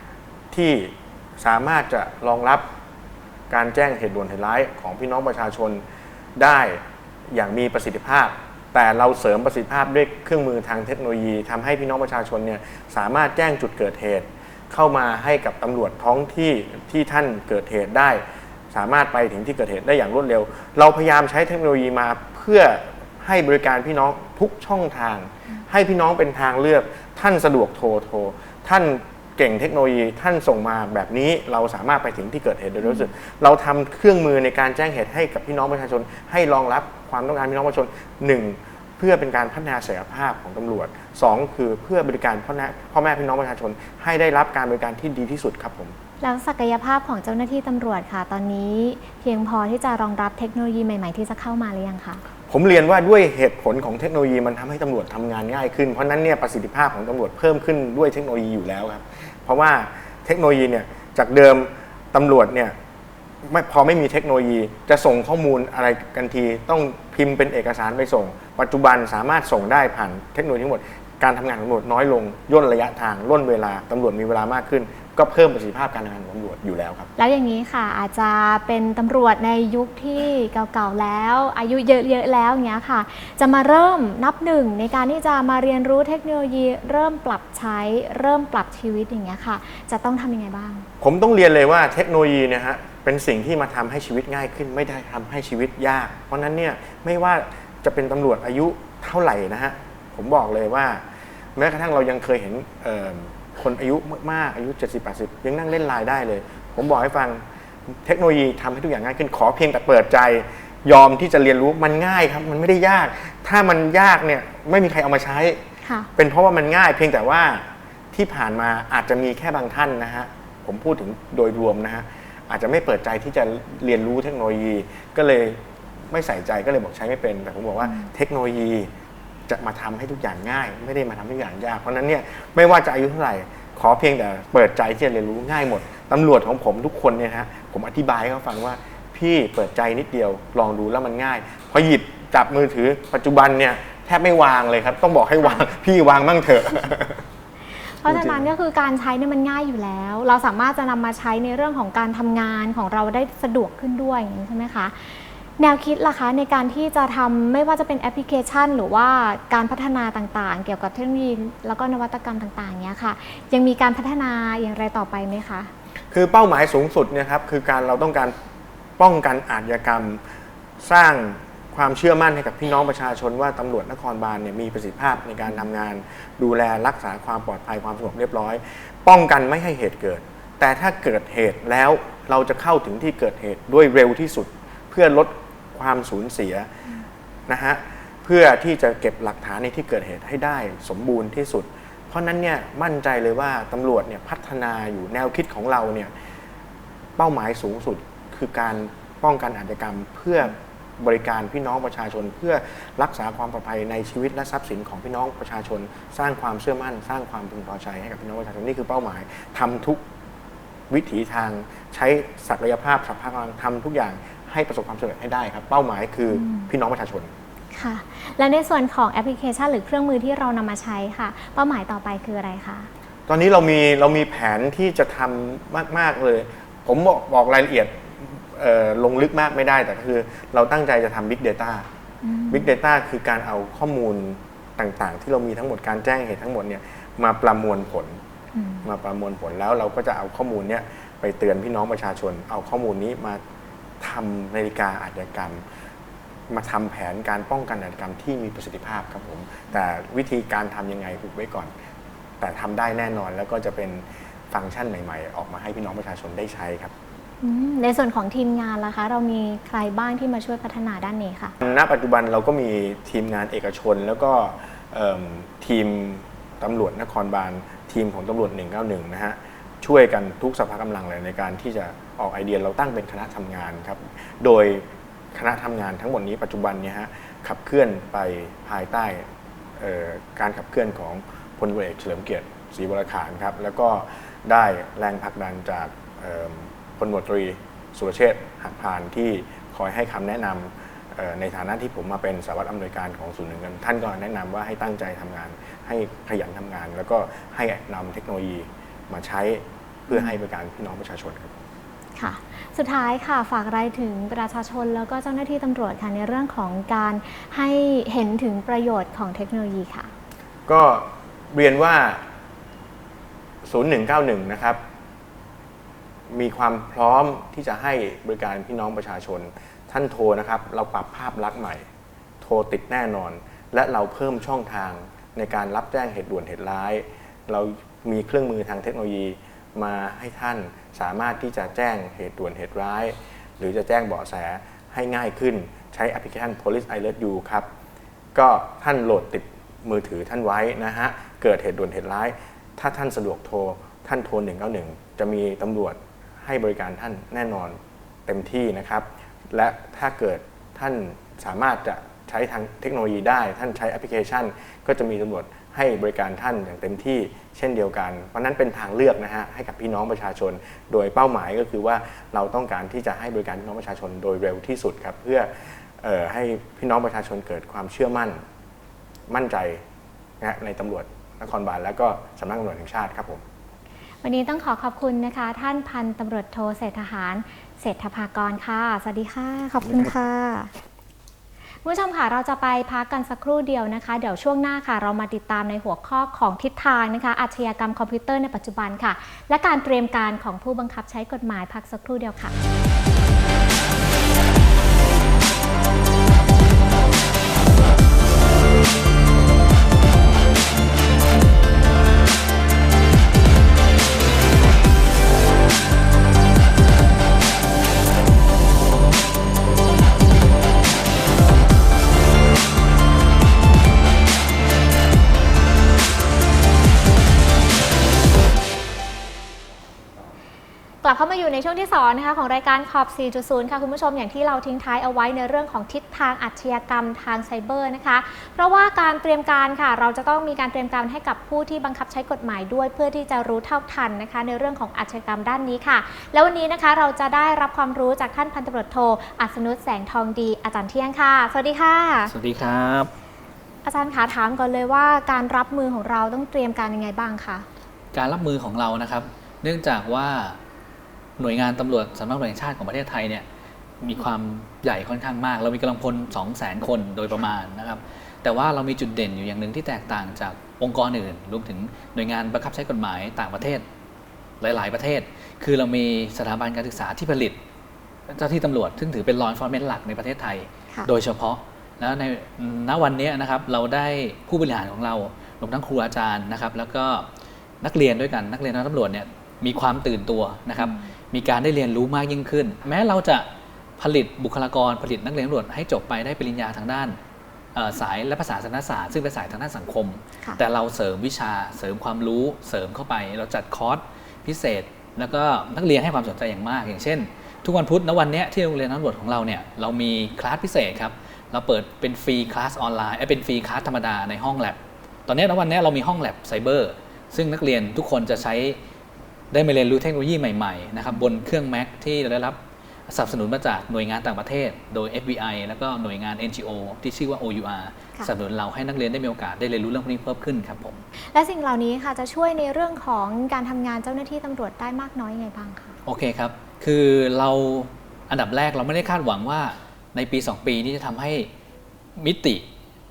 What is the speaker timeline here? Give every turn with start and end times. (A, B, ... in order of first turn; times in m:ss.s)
0:00.5-0:02.7 A
0:03.5-0:05.8 A
0:06.4-0:46.0 A
0:32.8-0:33.1 B
0:46.2-0:52.2 B
0:52.5-1:02.8 A
1:03.4-1:17.1 A
1:17.2-1:30.9 B
1:31.0-1:55.6 A
1:55.8-1:56.1 B
1:56.2-2:08.9 A
2:09.5-2:27.3 A
2:27.9-2:45.7 B
2:28.1-2:28.5 A
2:46.1-2:48.3 A
2:49.0-3:06.8 A
3:07.5-3:16.1 A
3:17.2-3:30.0 A
3:30.9-3:37.3 A
3:36.3-3:36.7 B
3:37.7-3:42.9 B
3:43.3-3:51.9 A
3:52.2-3:52.7 B
3:52.5-3:58.2 A
3:58.6-3:58.9 B
3:58.8-4:03.4 A
4:04.0-4:05.6 A
4:06.5-4:11.7 A
4:12.4-4:16.9 A
4:17.4-4:21.6 B
4:21.6-5:01.5 A
5:00.1-5:00.4 B
5:02.2-5:10.1 B
5:10.7-5:12.2 A
5:13.6-5:14.8 A
5:16.3-5:21.9 A
5:22.4-5:37.7 A
5:38.3-6:08.4 A
6:09.3-6:09.8 A
6:10.4-6:13.4 A
6:14.2-6:20.7 B
6:21.8-6:32.6 B
7:01.0-7:22.3 B
7:22.3-7:23.1 C
7:23.8-7:27.7 B
7:28.1-7:30.6 C
7:31.4-7:33.4 C
7:34.0-7:43.8 C
7:44.6-7:47.6 C
7:48.3-7:57.3 C
7:57.8-8:03.5 C
8:00.8-8:01.1 B
8:04.0-8:07.2 C
8:07.8-8:28.8 C
8:29.5-8:41.0 C
8:41.2-8:46.0 B
8:46.1-8:51.5 C
8:52.2-8:52.6 C